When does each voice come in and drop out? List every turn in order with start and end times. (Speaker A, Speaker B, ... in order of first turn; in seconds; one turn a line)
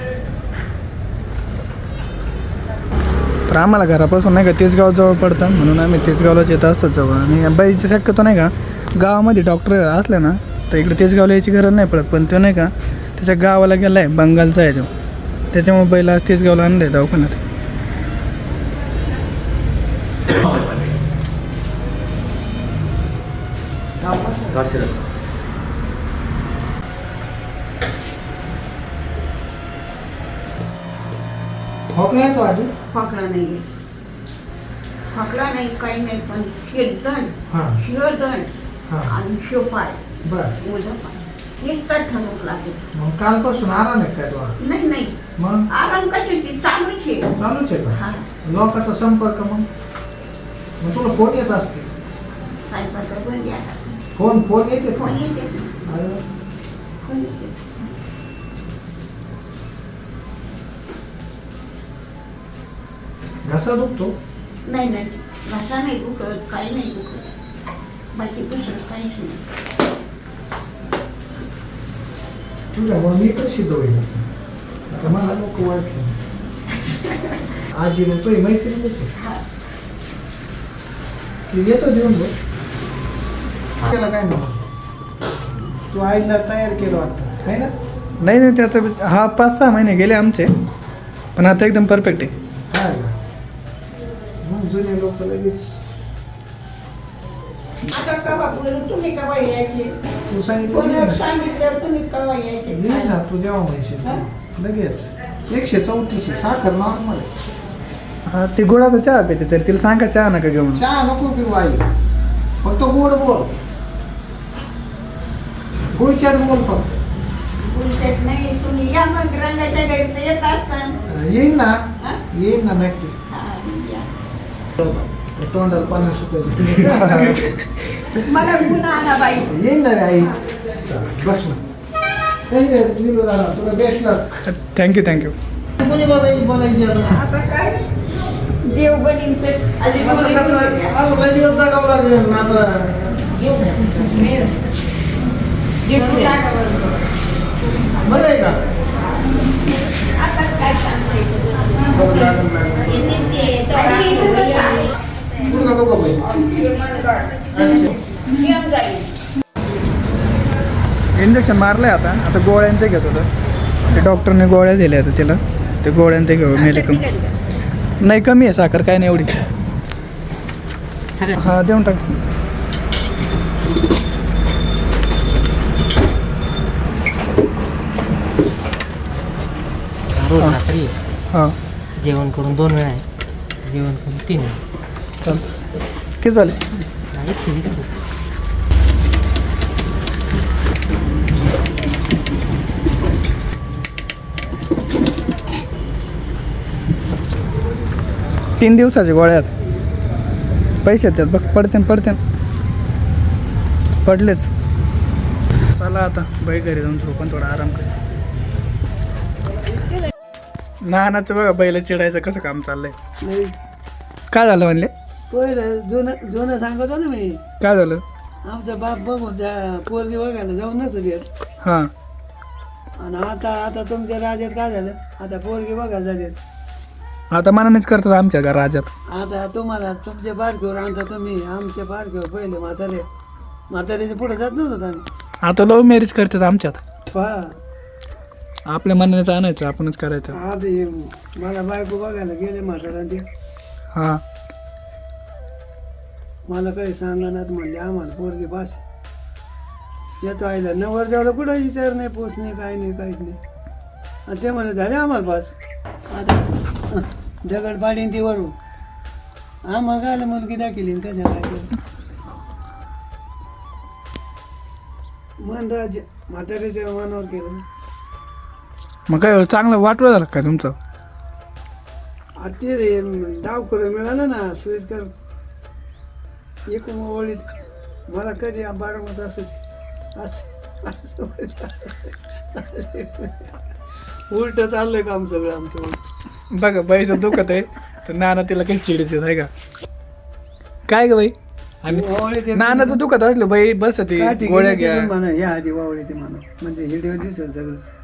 Speaker A: 3.5-14.9
Speaker A: 15.5-17.4
Speaker B: 24.0-24.9
Speaker B: 31.9-32.7
Speaker C: 32.9-33.6
Speaker C: 35.1-38.5
Speaker B: 37.5-37.8
Speaker B: 38.9-39.1
Speaker C: 39.1-40.0
Speaker B: 40.2-40.6
Speaker C: 40.6-42.8
Speaker B: 42.9-44.6
Speaker C: 44.6-45.1
Speaker B: 45.4-45.7
Speaker C: 45.7-47.3
Speaker B: 47.4-49.7
Speaker C: 47.9-48.2
Speaker B: 50.8-51.9
Speaker C: 52.6-54.0
Speaker B: 54.1-55.2
Speaker C: 55.0-55.8
Speaker B: 55.8-56.2
Speaker C: 57.0-57.9
Speaker B: 63.4-64.1
Speaker C: 64.7-67.3
Speaker C: 68.1-69.4
Speaker B: 72.7-74.2
Speaker B: 74.9-76.2
Speaker C: 76.9-77.3
Speaker B: 77.7-79.1
Speaker B: 81.5-82.3
Speaker B: 83.8-84.6
Speaker B: 85.9-87.7
Speaker A: 88.2-90.5
Speaker A: 91.3-92.3
Speaker B: 92.7-93.1
Speaker B: 94.4-95.8
Speaker C: 97.9-99.9
Speaker B: 100.3-101.2
Speaker C: 100.7-103.2
Speaker B: 102.7-107.3
Speaker A: 108.3-110.8
Speaker B: 110.7-111.9
Speaker B: 112.6-113.5
Speaker B: 115.9-117.0
Speaker C: 117.6-121.0
Speaker B: 121.1-123.2
Speaker C: 123.3-124.1
Speaker B: 124.8-127.5
Speaker A: 126.8-127.6
Speaker C: 128.1-129.5
Speaker B: 128.4-128.7
Speaker B: 129.4-131.6
Speaker B: 132.5-134.4
Speaker A: 134.4-135.3
Speaker B: 135.8-137.2
Speaker C: 137.0-138.0
Speaker C: 138.6-141.0
Speaker B: 140.0-143.9
Speaker C: 143.4-144.6
Speaker C: 145.8-147.1
Speaker B: 148.0-148.7
Speaker C: 149.5-155.0
Speaker B: 151.9-153.4
Speaker B: 155.4-156.3
Speaker C: 156.2-159.1
Speaker B: 157.5-158.0
Speaker A: 161.2-163.3
Speaker A: 163.9-167.0
Speaker C: 166.5-167.3
Speaker A: 168.0-169.4
Speaker A: 171.3-172.1
Speaker D: 180.2-180.9
Speaker D: 182.0-183.1
Speaker D: 183.7-184.6
Speaker A: 185.2-185.5
Speaker A: 186.2-186.7
Speaker D: 187.1-187.9
Speaker A: 198.6-199.5
Speaker A: 200.8-202.2
Speaker A: 204.0-204.5
Speaker A: 205.7-207.9
Speaker A: 210.8-212.9
Speaker E: 213.2-213.5
Speaker A: 214.3-214.9
Speaker E: 215.3-217.4
Speaker A: 217.6-218.0
Speaker E: 218.4-221.2
Speaker A: 221.6-221.9
Speaker E: 223.0-226.4
Speaker A: 227.3-228.9
Speaker E: 229.1-233.1
Speaker E: 233.7-235.1
Speaker A: 235.4-236.8
Speaker E: 237.1-237.6
Speaker A: 238.7-240.4
Speaker E: 240.3-243.2
Speaker A: 243.9-244.2
Speaker E: 246.5-248.8
Speaker E: 250.2-253.4
Speaker E: 254.3-255.5
Speaker E: 256.1-258.5
Speaker E: 259.7-261.7
Speaker E: 265.4-267.6
Speaker A: 269.1-270.7
Speaker E: 272.4-275.1
Speaker E: 276.7-277.5
Speaker E: 278.1-279.6
Speaker E: 280.2-283.4
Speaker E: 284.3-286.0
Speaker A: 286.5-289.5
Speaker A: 290.9-295.1
Speaker E: 291.9-293.0
Speaker E: 294.1-297.8